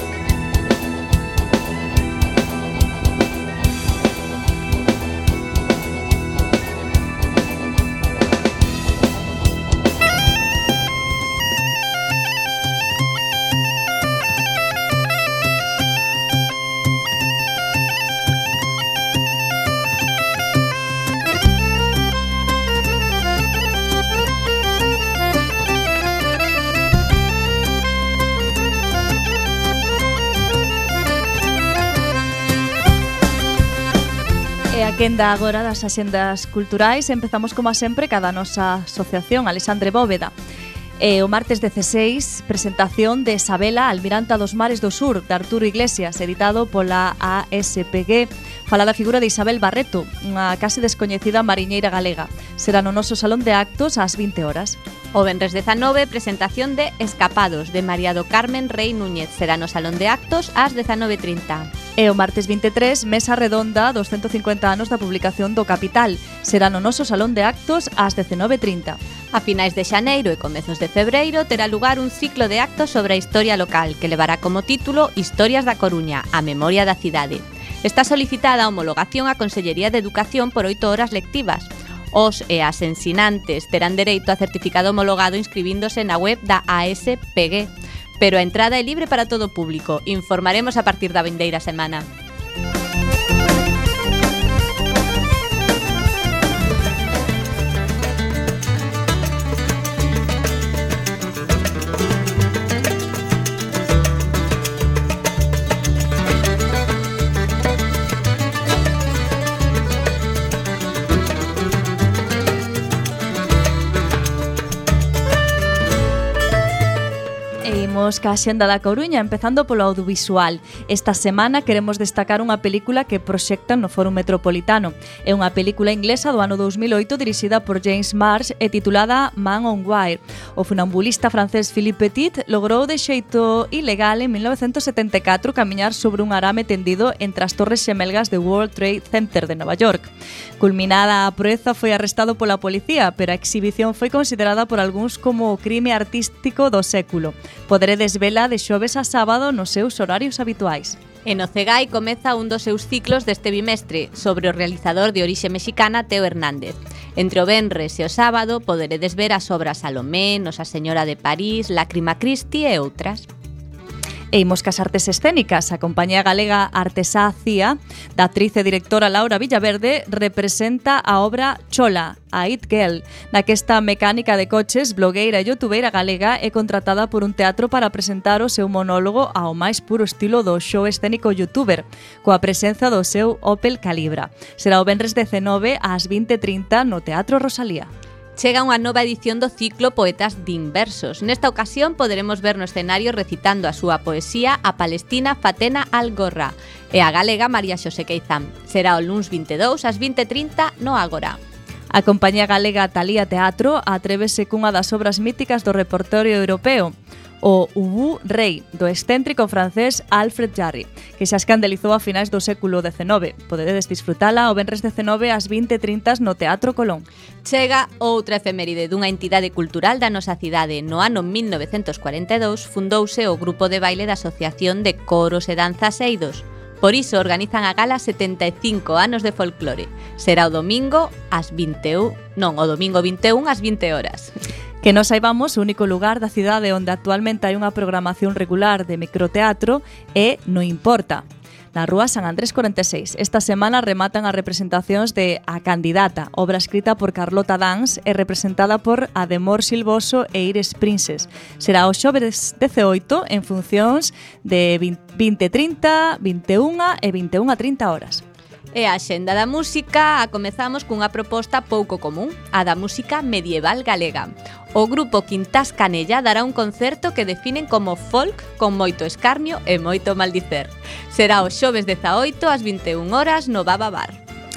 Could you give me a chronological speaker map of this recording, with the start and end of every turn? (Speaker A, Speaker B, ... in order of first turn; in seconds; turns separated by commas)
Speaker A: 34.7-40.3, Speaker A: 41.0-54.8, Speaker B: 55.1-61.7, Speaker A: 62.0-69.0, Speaker B: 69.3-92.1, Speaker A: 117.6-151.0, Speaker B: 151.2-163.3, Speaker A: 164.3-187.9, Speaker B: 188.4-201.4, Speaker A: 201.9-217.1, Speaker B: 217.4-234.3, Speaker A: 234.8-258.2, Speaker B: 258.7-274.2